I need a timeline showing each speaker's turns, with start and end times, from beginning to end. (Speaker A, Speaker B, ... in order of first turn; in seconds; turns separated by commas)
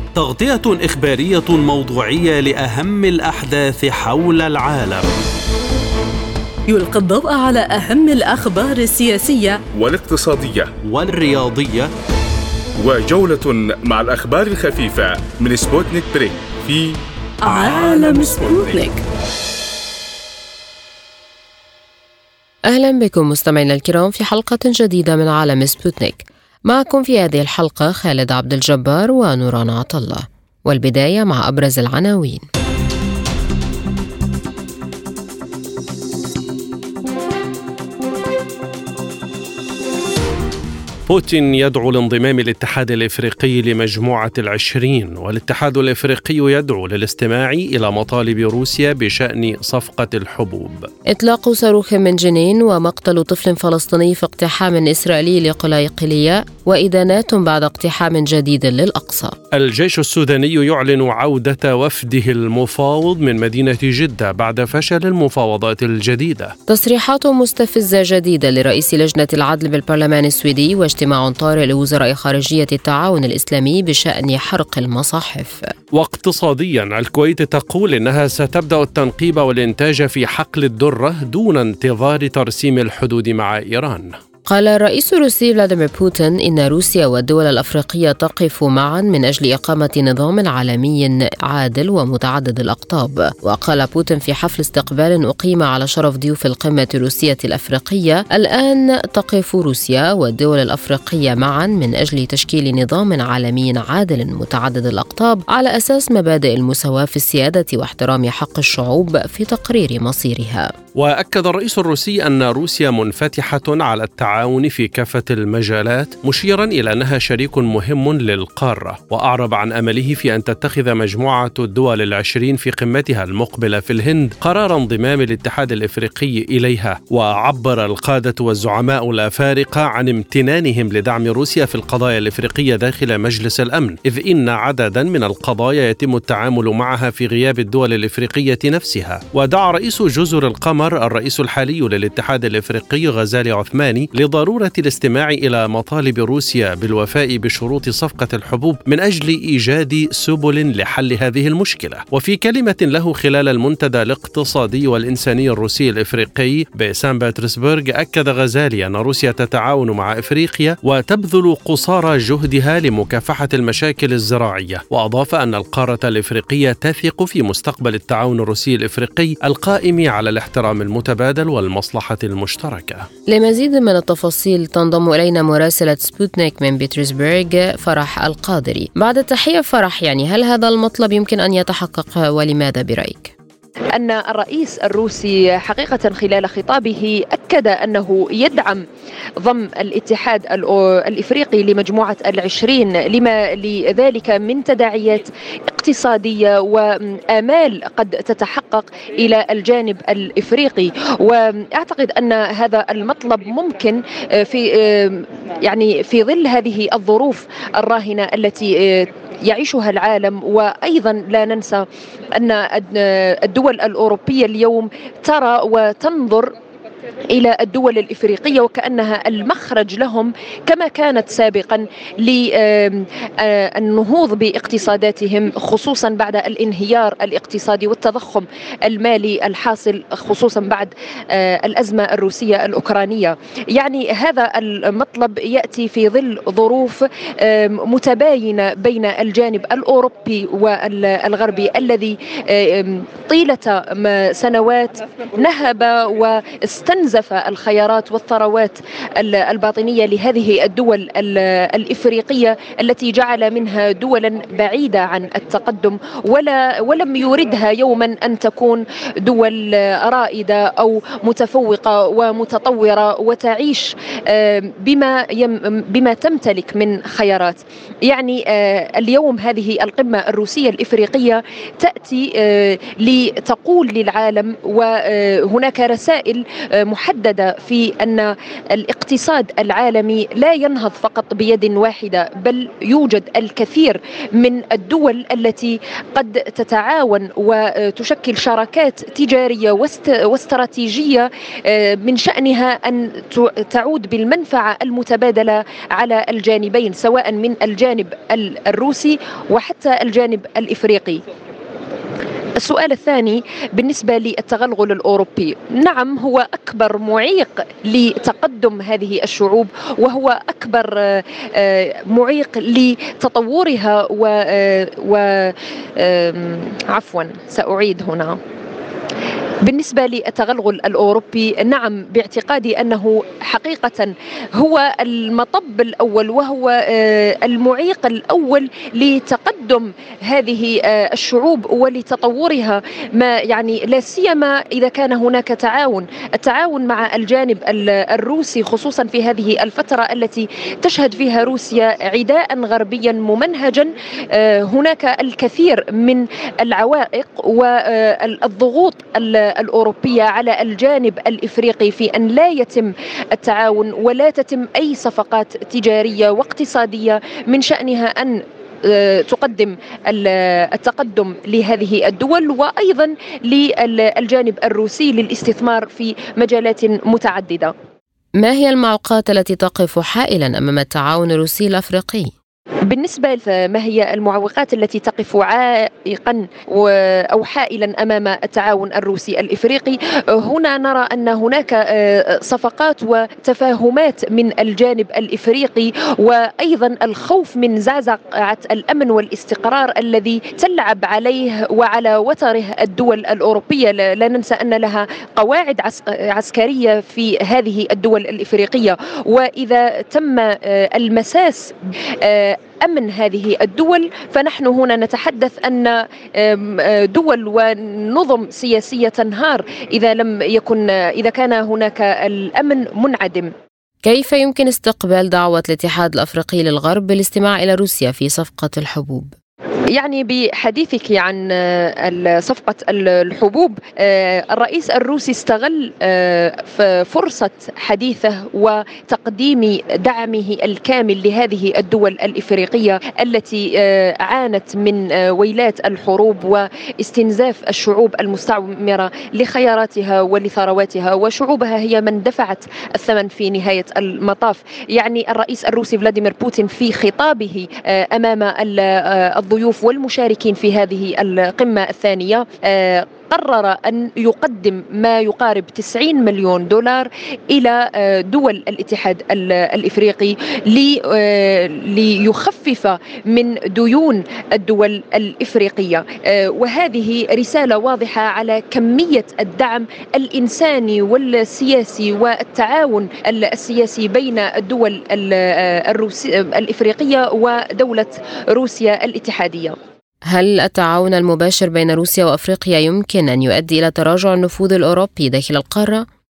Speaker A: 0.2-5.1, Speaker B: 6.7-9.6, Speaker C: 9.7-10.7, Speaker A: 10.8-11.9, Speaker C: 12.8-18.8, Speaker B: 17.4-19.0, Speaker D: 22.7-32.4, Speaker A: 41.1-50.9, Speaker D: 51.1-59.4, Speaker A: 59.5-66.5, Speaker D: 66.7-75.7, Speaker A: 75.9-84.2, Speaker D: 84.5-110.7, Speaker A: 111.0-173.1, Speaker D: 173.3-183.3, Speaker E: 183.9-188.8, Speaker E: 189.4-216.6, Speaker E: 217.3-301.2, Speaker E: 302.6-318.4, Speaker E: 319.6-367.7, Speaker D: 368.4-372.3, Speaker E: 372.9-413.5, Speaker D: 414.1-419.3, Speaker E: 419.9-479.8, Speaker D: 480.3-486.1